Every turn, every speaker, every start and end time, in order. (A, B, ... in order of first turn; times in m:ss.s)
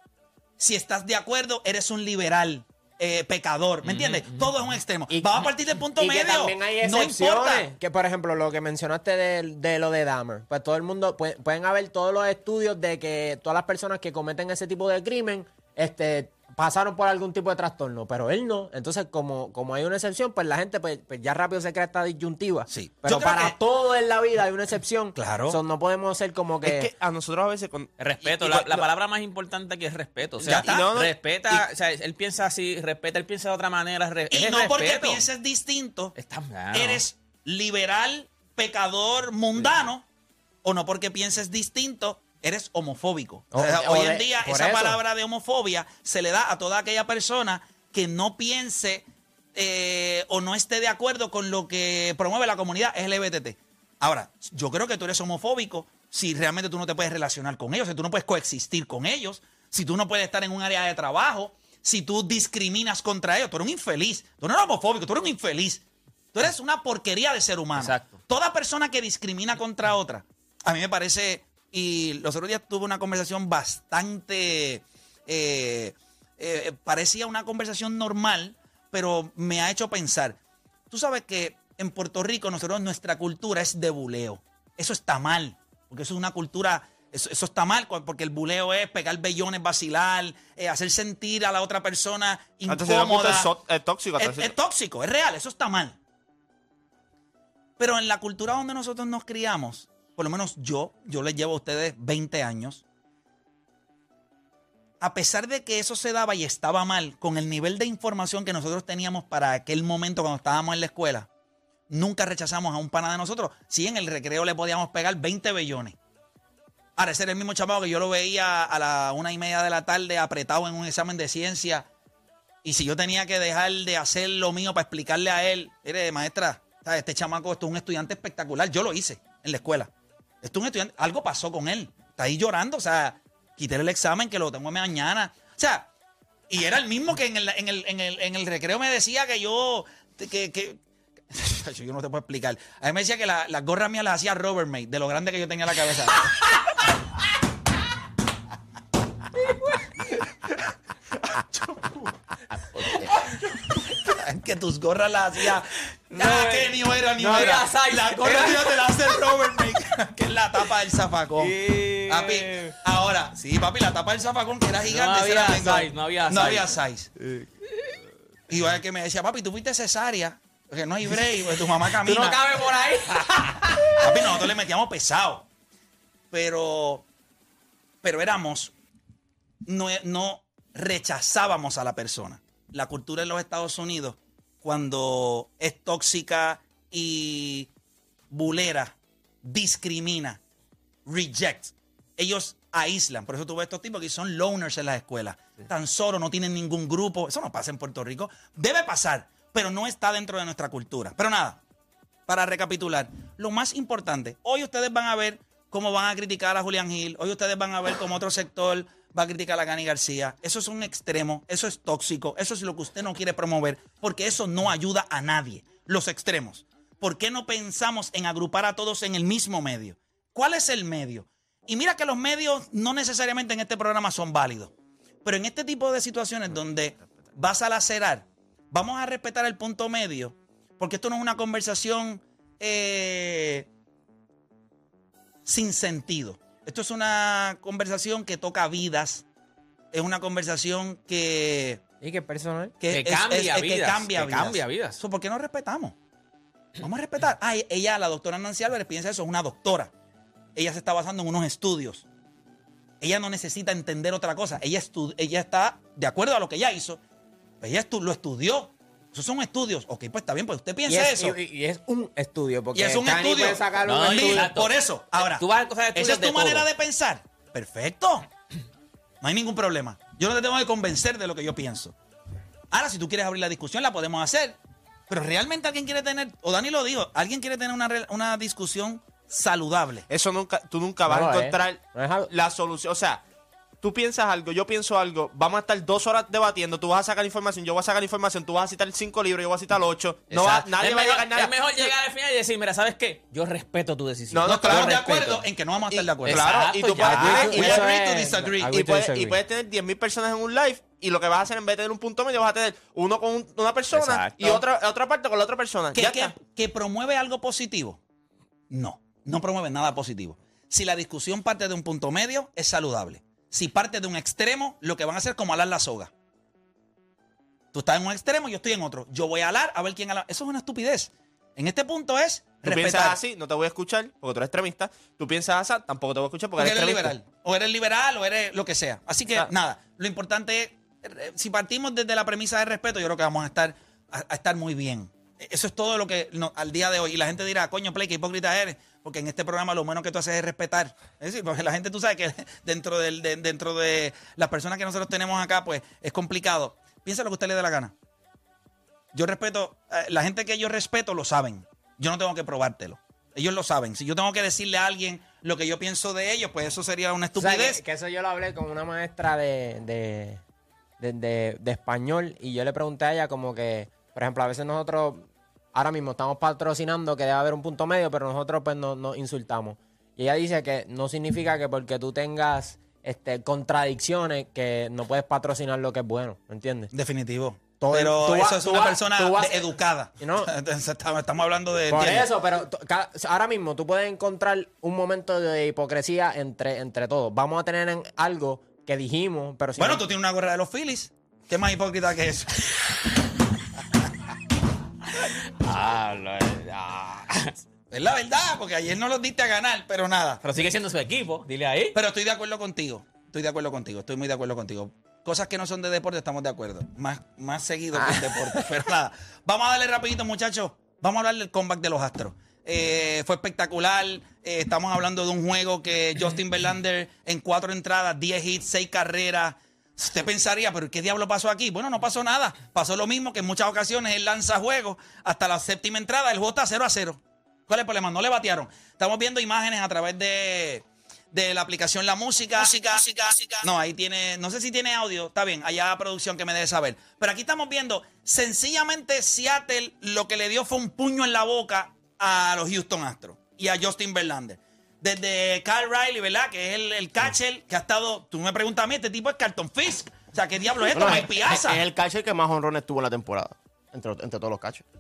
0:00.6-0:07.7 A
0:03.8-0:04.5 B
0:05.1-0:26.9 C
0:22.7-0:23.6 A
0:25.2-0:25.6 A
0:26.6-0:28.8 D
0:28.0-0:35.2 B
0:30.4-0:31.6 D
0:30.5-0:30.9 A
0:34.3-0:36.2 A
0:36.2-0:37.0 B
0:36.7-0:40.0 A
0:40.6-1:05.8 A
0:43.5-0:45.0 C
1:06.3-1:20.4 A
1:07.8-1:08.2 B
1:20.9-1:33.5 A
1:32.7-1:34.5 D
1:34.2-1:36.0 A
1:37.8-1:42.8 A
1:45.0-1:51.3 A
1:51.9-1:56.0 A
1:57.0-2:01.9 A
2:02.6-2:09.9 A
2:10.4-2:15.9 A
2:16.5-2:20.8 A
2:21.3-2:26.6 A
2:29.4-2:30.2 B
2:32.8-2:33.4 B
2:32.8-2:33.1 A
2:33.9-2:47.1 A
2:36.1-2:39.2 B
2:41.4-2:42.8 B
2:44.9-2:46.8 B
2:48.5-2:52.5 A
2:51.8-2:54.5 B
2:54.0-2:55.5 A
2:56.3-2:57.0 A
2:58.0-2:58.7 A
2:59.7-3:07.7 A
3:08.3-3:10.4 A
3:11.1-3:21.6 A
3:22.3-3:44.7 A
3:45.2-3:53.7 A
3:55.5-3:59.2 A
3:59.9-4:01.8 A
4:02.0-4:02.7 C
4:02.8-4:06.0 A
4:02.9-4:05.0 B
4:06.8-4:09.9 A
4:10.6-4:12.0 A
4:13.0-4:17.0 A
4:17.6-4:21.4 A
4:20.9-4:24.5 C
4:22.8-4:28.3 A
4:23.9-4:26.7 B
4:29.2-4:31.9 A
4:32.7-4:34.6 A
4:35.1-4:40.1 A
4:40.1-4:43.2 D
4:41.1-4:42.3 C
4:43.8-4:51.9 D
4:50.3-4:55.4 B
4:54.3-4:55.4 D
4:54.5-4:58.7 A
4:55.9-4:57.9 D
4:56.2-4:57.7 B
4:57.0-4:59.4 C
4:58.6-5:06.3 D
5:03.9-5:04.6 B
5:06.0-5:08.0 A
5:08.7-5:16.1 A
5:17.7-5:23.2 A
5:22.6-5:27.1 D
5:26.6-5:47.9 A
5:49.1-5:57.8 A
5:57.4-6:00.4 C
6:01.0-6:16.9 C
6:16.9-6:22.3 A
6:17.8-6:20.5 C
6:21.9-6:30.0 C
6:29.8-6:32.7 A
6:35.2-6:37.6 B
6:37.9-6:40.4 A
6:40.4-6:42.0 B
6:41.9-7:31.8 A
6:48.0-6:48.7 C
7:30.9-7:34.8 E